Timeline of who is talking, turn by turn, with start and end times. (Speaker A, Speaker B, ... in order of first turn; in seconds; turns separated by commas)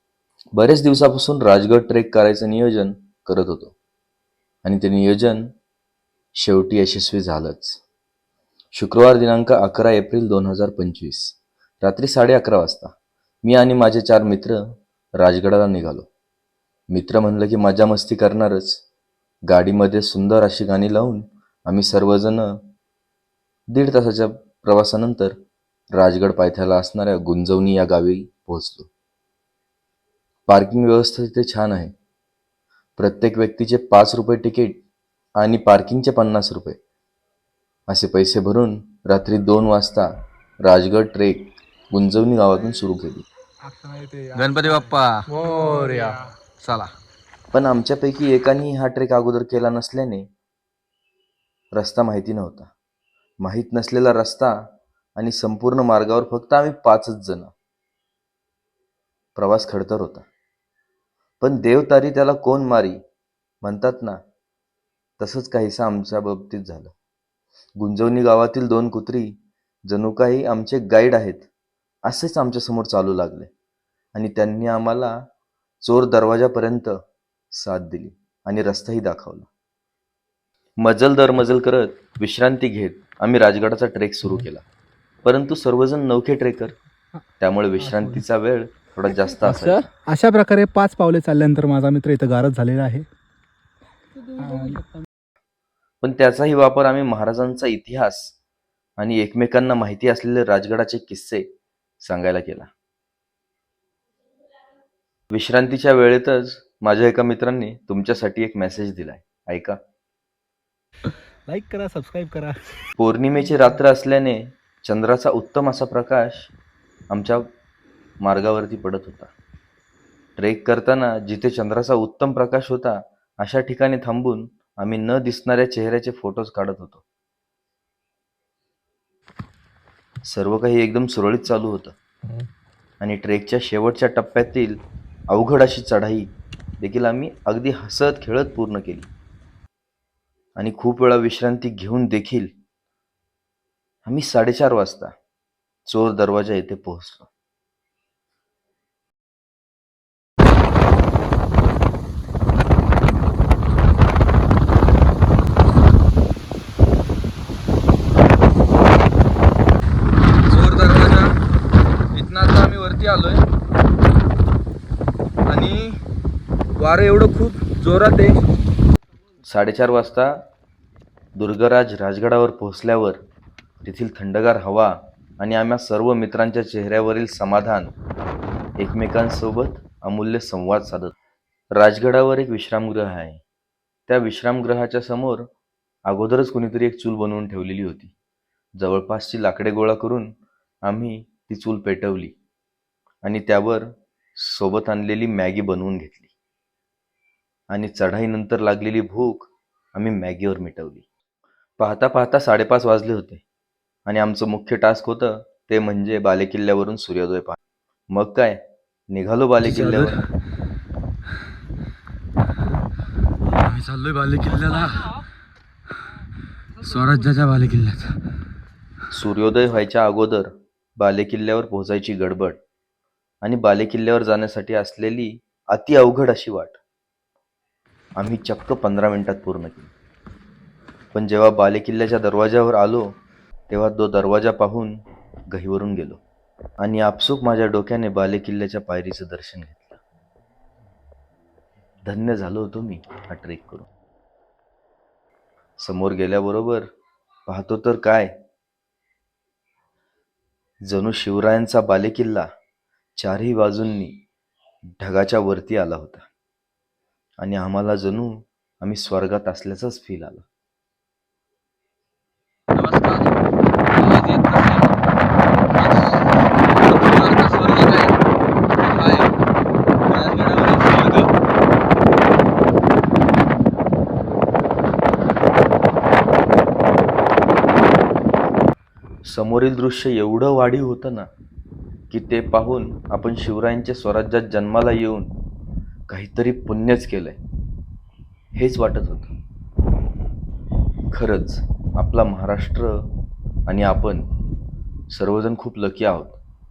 Speaker A: 0.6-3.7, Speaker A: 4.6-5.5, Speaker A: 6.3-7.8, Speaker A: 8.7-12.9, Speaker A: 13.4-14.6, Speaker A: 15.2-16.1, Speaker A: 16.9-18.8, Speaker A: 19.5-22.5, Speaker A: 23.7-25.4, Speaker A: 25.9-28.9, Speaker A: 30.5-31.9, Speaker A: 33.0-34.8, Speaker A: 35.4-36.8, Speaker A: 37.9-40.1, Speaker A: 40.6-43.3, Speaker B: 43.6-46.3, Speaker C: 44.4-46.9, Speaker A: 47.5-50.3, Speaker A: 51.8-52.7, Speaker A: 53.4-54.6, Speaker A: 55.2-57.5, Speaker A: 59.4-60.3, Speaker A: 61.4-63.0, Speaker A: 63.6-64.2, Speaker A: 65.2-66.9, Speaker A: 67.8-69.3, Speaker A: 69.9-71.5, Speaker A: 72.1-73.5, Speaker A: 74.2-75.2, Speaker A: 75.8-77.0, Speaker A: 77.5-79.5, Speaker A: 80.8-84.7, Speaker A: 85.2-86.8, Speaker A: 87.4-89.9, Speaker B: 87.8-88.2, Speaker B: 89.4-93.1, Speaker B: 94.3-94.8, Speaker A: 96.0-98.4, Speaker A: 99.0-101.5, Speaker A: 102.0-102.7, Speaker A: 105.3-109.8, Speaker B: 111.5-112.6, Speaker A: 113.0-116.5, Speaker A: 117.1-117.5, Speaker A: 118.2-119.3, Speaker A: 120.4-127.0, Speaker A: 130.3-132.0, Speaker A: 133.0-134.8, Speaker A: 135.3-136.3, Speaker A: 136.8-139.1, Speaker A: 140.6-142.5, Speaker A: 144.1-145.1, Speaker A: 145.9-147.3, Speaker C: 160.5-161.3, Speaker C: 162.1-163.4, Speaker C: 165.5-166.0, Speaker C: 166.8-168.4, Speaker A: 169.4-170.3, Speaker A: 171.4-173.2, Speaker A: 173.8-177.9, Speaker A: 178.8-181.2, Speaker A: 181.7-183.4, Speaker A: 184.1-185.5, Speaker A: 186.1-188.1, Speaker A: 188.8-190.3, Speaker A: 190.9-192.3, Speaker A: 193.2-196.3, Speaker A: 197.7-201.1, Speaker A: 201.8-203.4, Speaker A: 204.1-207.6, Speaker A: 208.1-208.6, Speaker A: 209.1-210.2, Speaker C: 209.7-210.1, Speaker C: 213.6-215.1, Speaker C: 216.8-218.2, Speaker A: 219.1-222.6, Speaker A: 223.4-226.8, Speaker A: 228.2-229.9, Speaker A: 231.1-233.1, Speaker A: 233.7-235.0, Speaker A: 235.5-236.2, Speaker A: 236.8-240.0, Speaker A: 242.1-243.9, Speaker A: 245.8-246.9, Speaker A: 247.5-248.3, Speaker A: 250.8-252.5, Speaker A: 253.2-254.2, Speaker A: 255.0-256.3, Speaker A: 257.4-260.4, Speaker C: 262.7-263.4, Speaker C: 264.0-264.9, Speaker C: 265.8-266.1, Speaker C: 266.7-268.1, Speaker C: 268.8-269.3, Speaker C: 270.1-271.3, Speaker A: 279.3-281.3, Speaker A: 282.1-285.3, Speaker A: 286.1-287.4, Speaker A: 288.6-289.3, Speaker A: 291.1-293.1, Speaker A: 293.7-294.2, Speaker A: 295.1-296.4